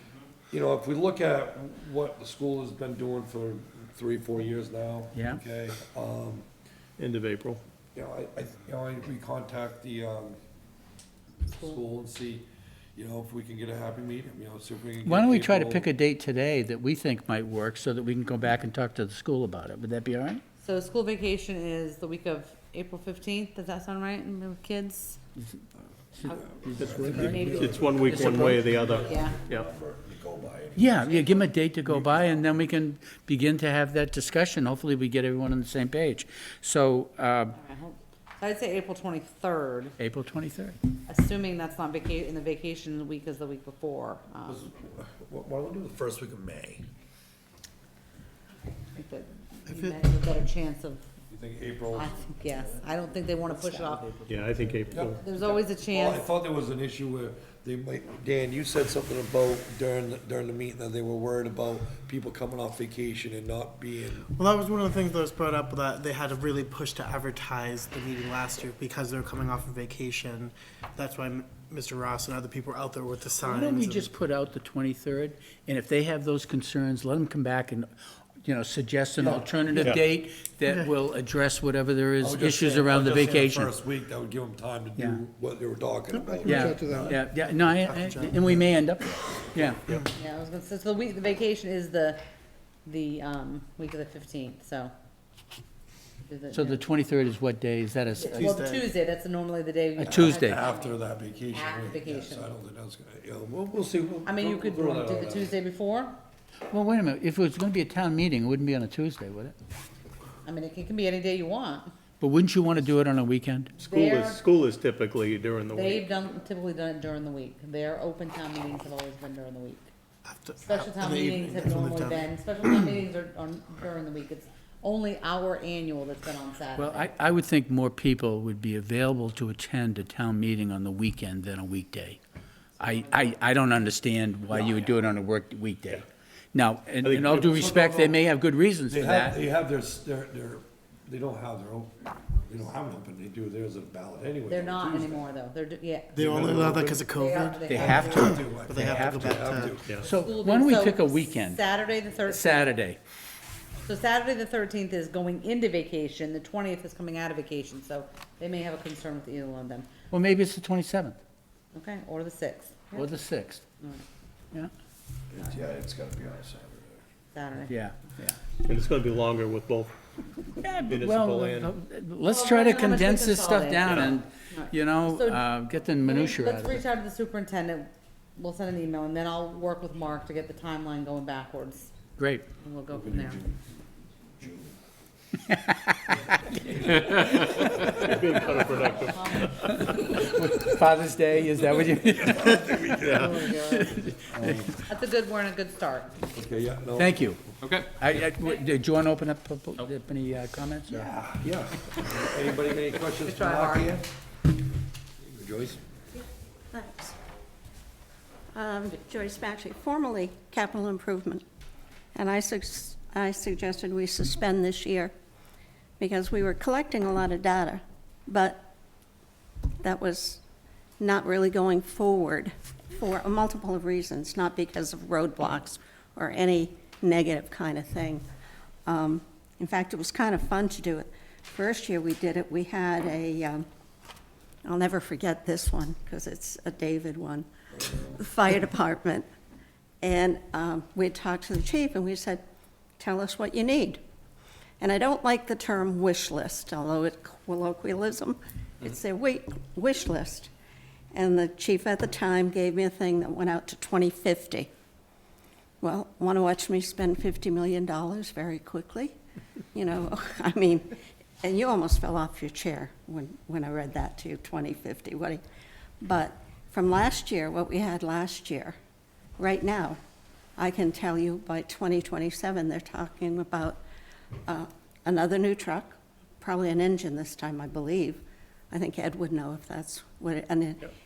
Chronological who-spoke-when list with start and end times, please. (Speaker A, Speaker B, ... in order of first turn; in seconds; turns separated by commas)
Speaker A: 0.5-6.5, Speaker B: 5.1-5.4, Speaker C: 7.0-7.6, Speaker A: 8.0-10.4, Speaker A: 11.5-15.9, Speaker D: 11.5-11.8, Speaker B: 15.0-20.4, Speaker D: 20.6-25.2, Speaker B: 26.2-28.6, Speaker D: 26.2-29.4, Speaker A: 26.6-31.1, Speaker C: 26.8-29.6, Speaker B: 30.8-37.6, Speaker D: 31.1-31.4, Speaker D: 37.6-40.0, Speaker B: 40.0-40.8, Speaker D: 41.1-44.7, Speaker A: 44.5-46.9, Speaker D: 48.9-51.0, Speaker A: 51.3-52.2, Speaker D: 51.9-54.2, Speaker B: 53.5-54.3, Speaker C: 54.3-55.2, Speaker A: 54.9-64.2, Speaker D: 55.1-56.3, Speaker E: 64.3-74.1, Speaker B: 73.4-77.9, Speaker B: 78.4-83.7, Speaker A: 79.2-79.6, Speaker C: 79.8-80.0, Speaker A: 82.2-87.2, Speaker E: 86.1-88.6, Speaker B: 86.4-89.9, Speaker D: 90.1-92.2, Speaker D: 92.9-94.9, Speaker D: 96.2-96.8, Speaker B: 96.5-98.4, Speaker D: 98.2-101.0, Speaker E: 98.3-98.9, Speaker B: 100.0-100.6, Speaker A: 100.1-105.5, Speaker D: 101.5-102.5, Speaker D: 104.2-106.2, Speaker B: 106.7-109.5, Speaker D: 110.4-111.9, Speaker B: 112.2-113.7, Speaker D: 113.8-114.4, Speaker C: 113.8-116.1, Speaker D: 115.7-119.9, Speaker E: 120.2-122.3, Speaker D: 120.6-127.1, Speaker B: 126.8-132.2, Speaker B: 132.8-139.4, Speaker C: 137.0-137.7, Speaker A: 137.5-138.2, Speaker A: 138.9-145.3, Speaker D: 144.5-146.2, Speaker E: 146.1-149.8, Speaker A: 146.2-147.0, Speaker D: 147.1-148.3, Speaker B: 147.7-149.3, Speaker A: 147.8-149.9, Speaker B: 150.0-151.6, Speaker D: 150.2-152.8, Speaker B: 152.2-153.0, Speaker D: 153.8-159.9, Speaker B: 160.1-161.2, Speaker D: 161.7-163.1, Speaker B: 162.9-163.6, Speaker D: 163.8-164.0, Speaker A: 165.3-167.0, Speaker D: 167.3-167.8, Speaker B: 167.7-168.4, Speaker C: 168.6-169.9, Speaker B: 170.6-176.8, Speaker C: 170.9-171.7, Speaker D: 172.2-175.4, Speaker C: 173.8-174.1, Speaker D: 176.0-181.9, Speaker B: 182.2-182.5, Speaker D: 182.6-183.4, Speaker A: 182.9-183.5, Speaker A: 184.4-184.8, Speaker B: 185.5-185.9, Speaker B: 187.1-188.0, Speaker C: 188.0-189.3, Speaker D: 188.9-189.7, Speaker B: 189.5-194.7, Speaker A: 192.2-193.3, Speaker C: 193.0-193.3, Speaker D: 193.1-194.1, Speaker A: 194.3-194.7, Speaker D: 194.8-196.1, Speaker A: 196.3-197.3, Speaker B: 197.0-197.4, Speaker C: 197.6-197.9, Speaker B: 197.9-201.1, Speaker A: 200.9-204.1, Speaker D: 203.3-204.0, Speaker A: 205.2-205.8, Speaker F: 206.7-207.2, Speaker F: 208.5-211.4, Speaker F: 212.1-215.1, Speaker F: 216.0-218.7, Speaker F: 219.8-220.4, Speaker F: 221.0-228.2, Speaker F: 228.8-233.7, Speaker F: 234.7-237.5, Speaker F: 238.1-239.3, Speaker F: 240.0-242.4, Speaker F: 243.0-244.0, Speaker F: 244.8-250.5, Speaker F: 251.1-254.7, Speaker F: 255.8-259.1, Speaker F: 259.7-265.4, Speaker F: 266.0-268.8, Speaker F: 269.4-270.0, Speaker F: 270.6-273.8, Speaker F: 274.4-280.9